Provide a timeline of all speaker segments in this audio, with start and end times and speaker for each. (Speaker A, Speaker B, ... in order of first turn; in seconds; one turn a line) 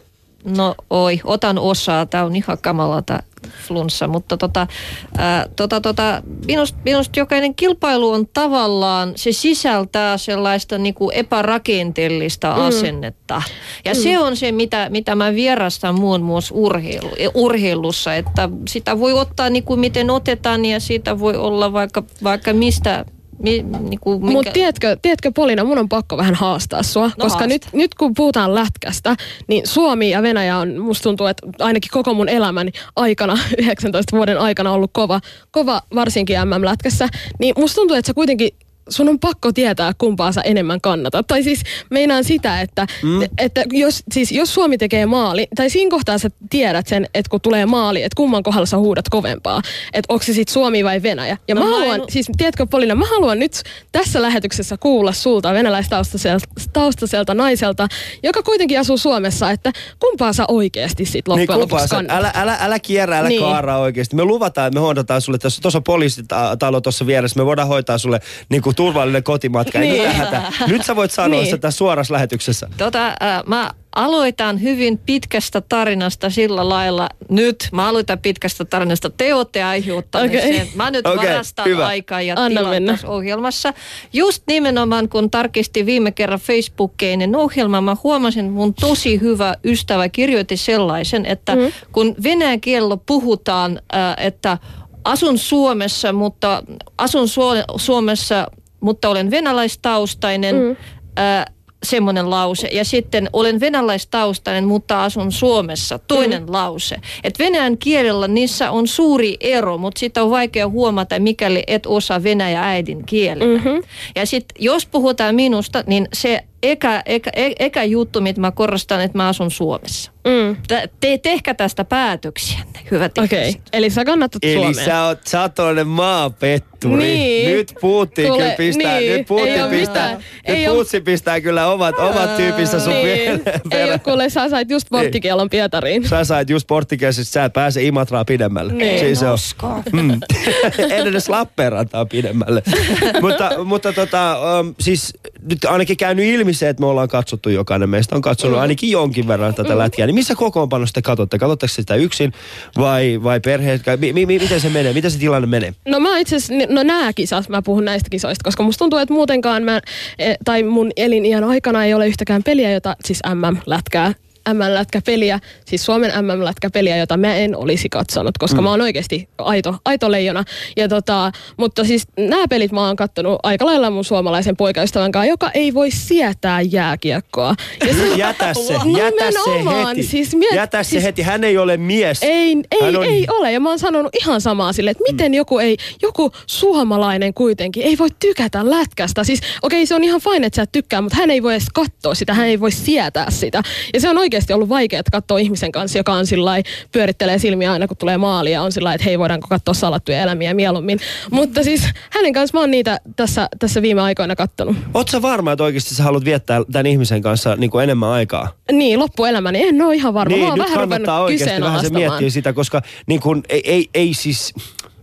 Speaker A: 0.4-24.6
Speaker B: 12.6-12.9
Speaker B: 24.2-62.2
Speaker A: 27.2-27.6
Speaker C: 43.0-43.3
Speaker A: 51.5-52.1
Speaker C: 61.3-72.7
Speaker B: 63.2-63.6
Speaker B: 69.8-70.1
Speaker A: 69.8-70.8
Speaker B: 71.2-71.6
Speaker A: 72.8-113.6
Speaker B: 80.2-80.6
Speaker C: 81.0-81.9
Speaker B: 82.3-83.0
Speaker B: 113.4-113.8
Speaker A: 114.2-120.1
Speaker B: 120.2-120.6
Speaker A: 120.6-123.6
Speaker B: 123.2-124.9
Speaker C: 124.4-134.1
Speaker B: 126.8-130.8
Speaker A: 129.4-130.2
Speaker A: 132.0-133.0
Speaker B: 132.8-136.1
Speaker C: 136.0-155.8
Speaker B: 138.7-139.2
Speaker A: 138.8-139.9
Speaker B: 155.9-178.2
Speaker C: 178.0-183.2
Speaker B: 178.8-181.1
Speaker B: 182.2-204.9
Speaker C: 204.9-208.5
Speaker B: 208.7-212.2
Speaker C: 210.2-214.6